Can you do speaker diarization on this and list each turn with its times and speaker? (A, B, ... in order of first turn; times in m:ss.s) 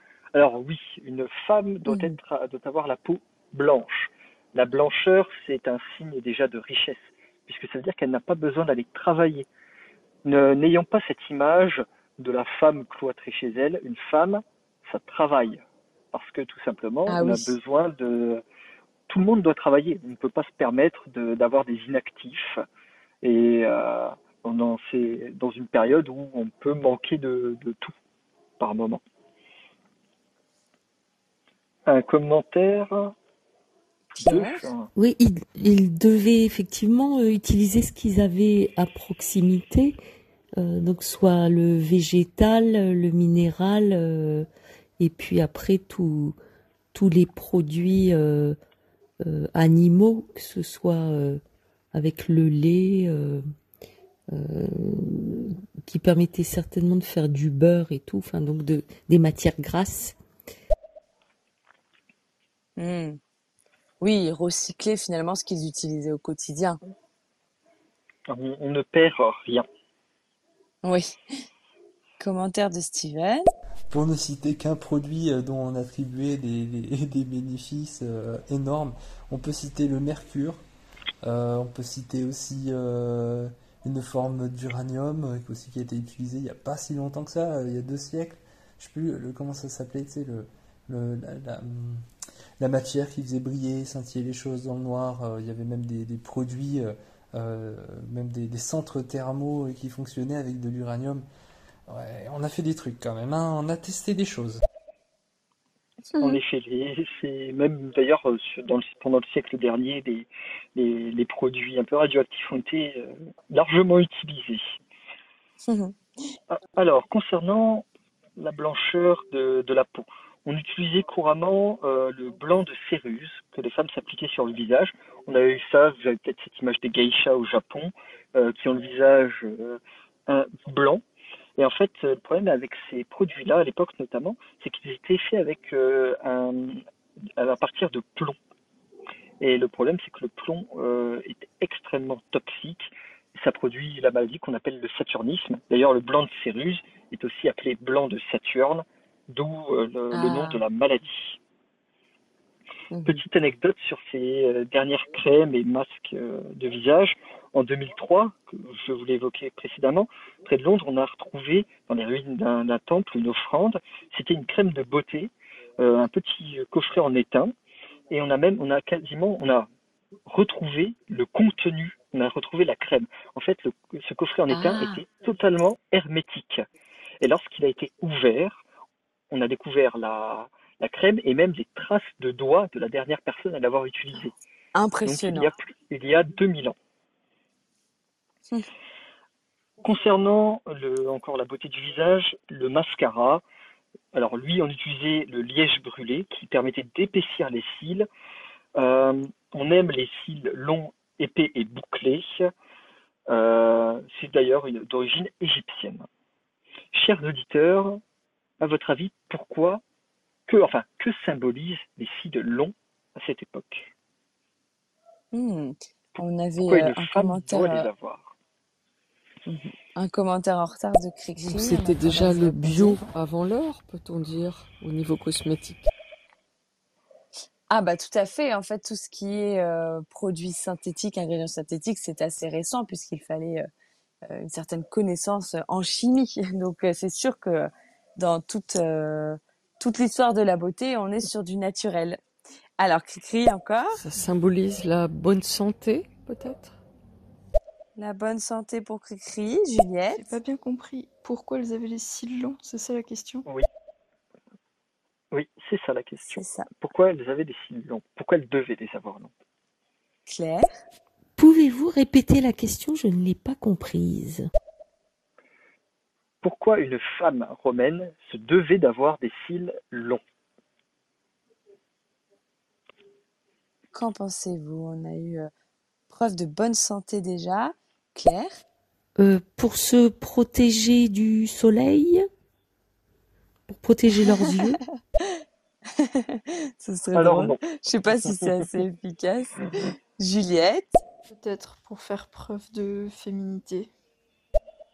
0:00.3-0:09.5 A
0:01.9-0:02.2 B
0:10.2-0:15.6 A
0:16.1-0:18.4 A
0:17.1-0:17.5 B
0:19.1-0:22.6 A
0:23.2-0:27.9 A
0:28.6-0:29.0 A
0:31.8-0:33.1 A
0:34.1-0:34.7 B
0:34.2-0:34.9 A
0:35.0-0:40.0 C
0:40.6-0:44.5 C
0:45.0-0:46.4 C
0:46.9-0:48.6 C
0:49.2-0:51.4 C
0:51.9-0:53.4 C
0:54.3-1:00.2 C
1:02.8-1:03.2 B
1:04.0-1:06.8 B
1:08.3-1:09.6 A
1:10.8-1:11.4 B
1:12.2-1:13.5 B
1:13.9-1:20.6 D
1:21.2-1:32.0 D
1:32.6-1:41.2 D
1:41.9-1:44.6 D
1:46.1-1:46.4 B
1:46.2-1:54.7 A
1:55.7-1:56.3 B
1:56.5-1:57.8 A
1:58.4-2:11.0 A
2:11.6-2:16.8 A
2:17.4-2:18.4 A
2:19.4-2:31.4 A
2:30.1-2:30.6 B
2:32.9-2:33.2 B
2:33.0-2:47.5 A
2:48.1-2:49.7 A
2:50.3-2:56.6 A
2:54.5-2:55.0 B
2:57.2-2:58.6 A
2:59.3-3:04.3 A
3:04.7-3:05.5 B
3:05.0-3:06.8 A
3:09.8-3:13.4 A
3:14.1-3:18.1 A
3:18.8-3:22.5 A
3:23.3-3:26.1 A
3:26.9-3:28.0 A
3:28.6-3:29.8 A
3:30.5-3:33.9 A
3:35.3-3:37.9 B
3:36.2-3:38.3 A
3:39.5-3:43.1 B
3:41.4-3:45.9 E
3:47.7-3:53.7 B
3:54.2-4:02.2 B
4:02.8-4:04.0 B
4:04.0-4:06.8 E
4:08.0-4:10.3 B
4:10.1-4:13.4 F
4:15.3-4:19.3 A
4:16.3-4:16.7 B
4:20.2-4:20.8 B
4:21.4-4:24.5 C
4:26.4-4:30.2 A
4:33.9-4:35.5 B
4:36.1-4:38.6 B
4:39.2-4:42.3 C
4:43.7-4:44.8 C
4:44.3-4:44.6 B
4:45.9-4:51.0 B
4:47.1-4:47.6 A
4:51.3-4:53.9 F